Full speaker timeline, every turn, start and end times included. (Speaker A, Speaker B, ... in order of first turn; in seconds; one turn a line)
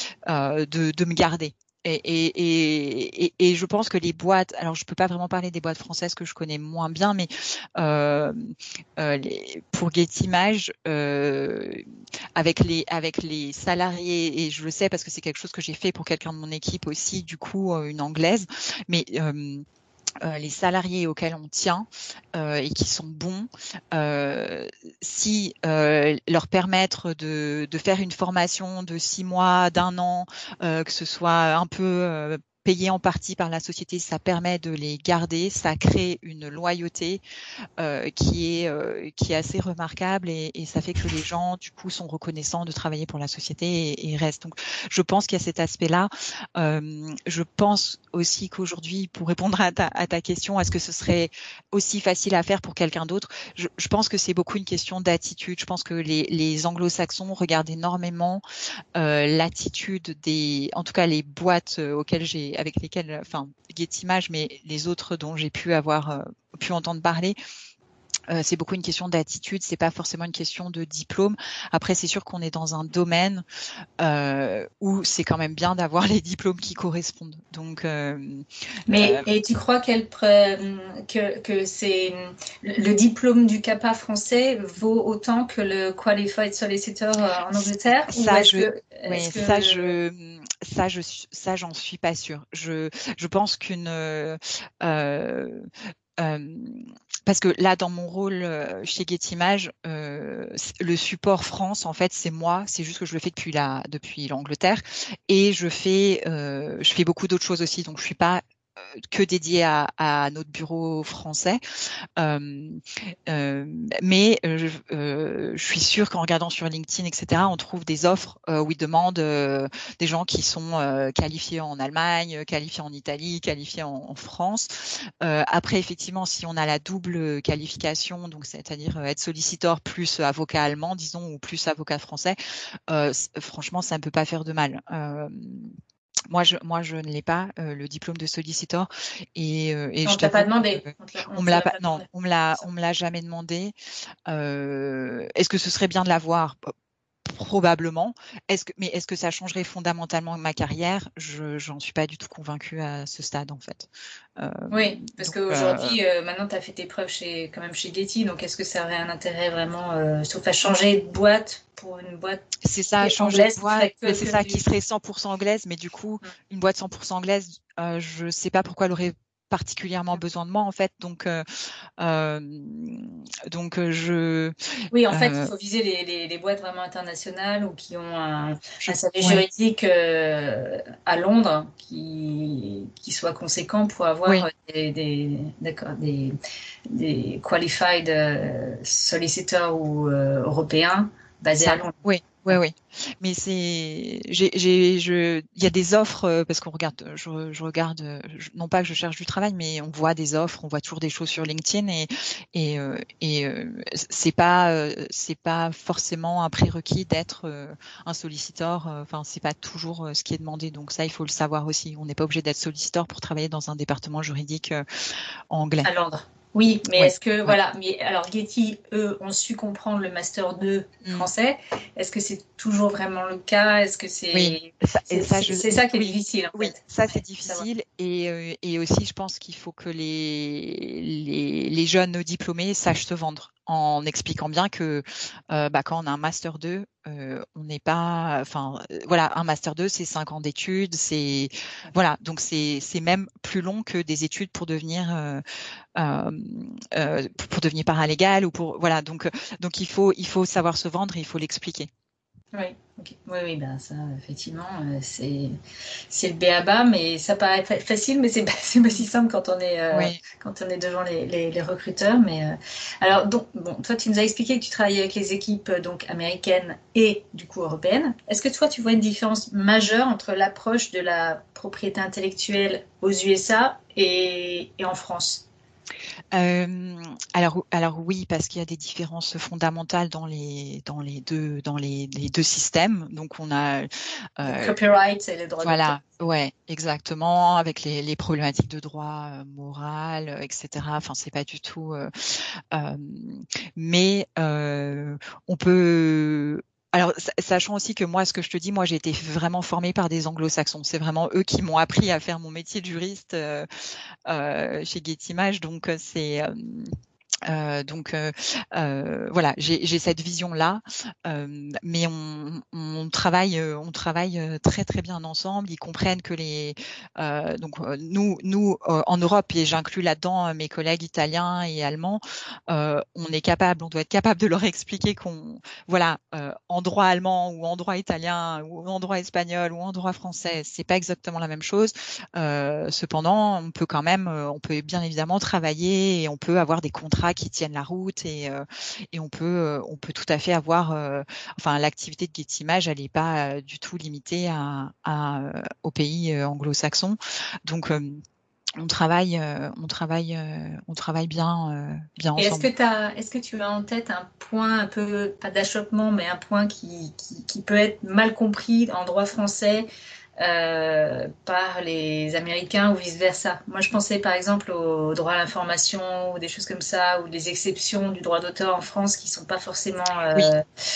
Speaker A: 0.3-11.8
Speaker A: 12.4-19.6
Speaker A: 20.2-37.2
Speaker A: 37.8-58.4
Speaker A: 59.0-67.4
Speaker A: 68.3-73.4
Speaker A: 74.0-79.3
Speaker B: 78.9-89.9
Speaker A: 88.1-108.4
Speaker A: 109.0-111.6
Speaker A: 112.2-124.7
Speaker A: 125.2-132.4
Speaker A: 132.9-135.7
Speaker A: 136.3-143.7
Speaker B: 140.1-142.1
Speaker A: 144.3-146.7
Speaker A: 147.2-156.0
Speaker B: 154.7-162.4
Speaker A: 162.6-171.4
Speaker B: 163.0-164.6
Speaker A: 172.0-174.6
Speaker B: 174.9-186.4
Speaker A: 175.1-175.5
Speaker A: 178.8-179.5
Speaker B: 186.9-191.9
Speaker A: 191.6-214.8
Speaker A: 215.5-215.9
Speaker B: 215.8-226.8
Speaker A: 216.9-217.6
Speaker A: 224.3-245.4
Speaker A: 246.0-251.9
Speaker B: 252.5-255.6
Speaker B: 256.1-275.4
Speaker A: 259.9-260.2
Speaker A: 276.3-284.8
Speaker B: 284.4-286.0
Speaker A: 285.6-303.7
Speaker A: 304.3-306.9
Speaker A: 307.5-348.2
Speaker A: 348.8-352.7
Speaker B: 352.4-359.9
Speaker B: 360.4-370.6